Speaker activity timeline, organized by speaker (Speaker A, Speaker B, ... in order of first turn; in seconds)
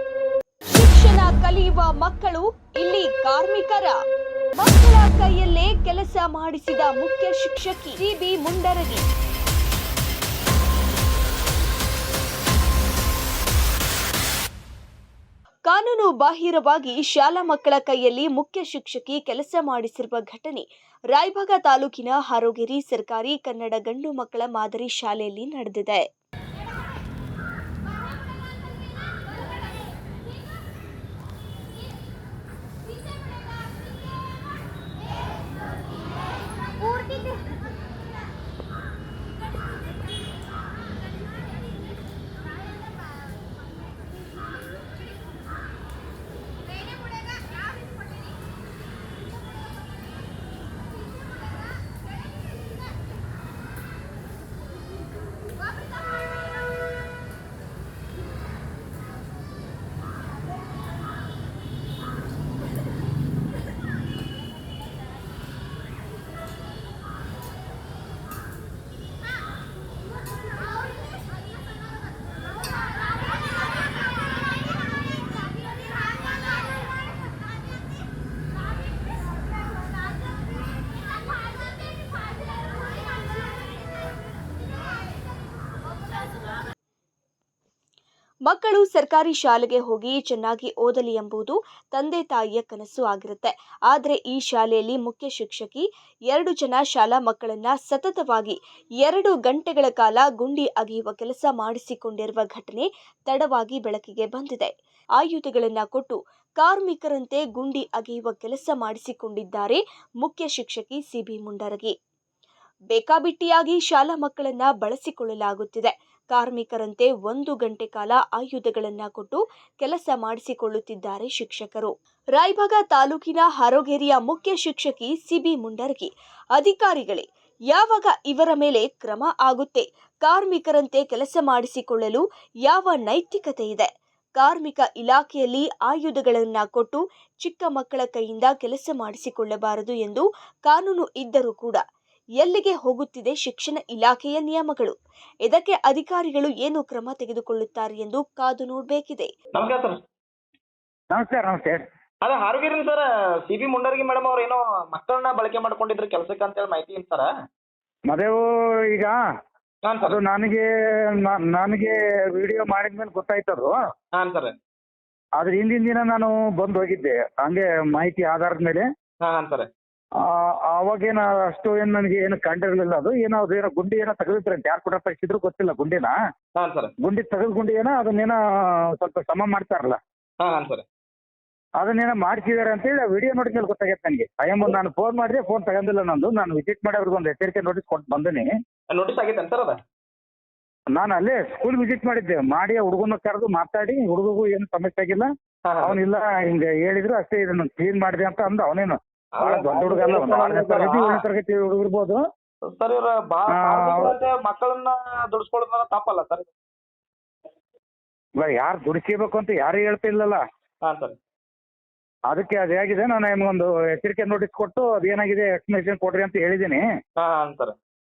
Speaker A: 0.7-4.0, 4.6-9.1, 15.7-26.1, 88.5-111.9, 112.9-141.8, 142.4-144.9, 145.4-149.3
Speaker B: 149.5-150.0, 152.2-157.3, 159.8-160.2, 164.2-164.5, 169.2-169.7, 176.6-176.9, 180.4-180.8, 188.9-189.8, 195.6-196.0, 199.3-201.2, 202.7-206.5, 210.8-211.2, 217.2-217.7
Speaker C: 151.1-151.8, 158.1-159.2, 160.0-163.8, 165.4-168.9, 170.2-176.2, 177.0-178.4, 178.9-180.0, 181.8-188.5, 190.9-195.3, 195.8-202.2, 203.5-204.1, 208.4-210.4, 212.3-216.8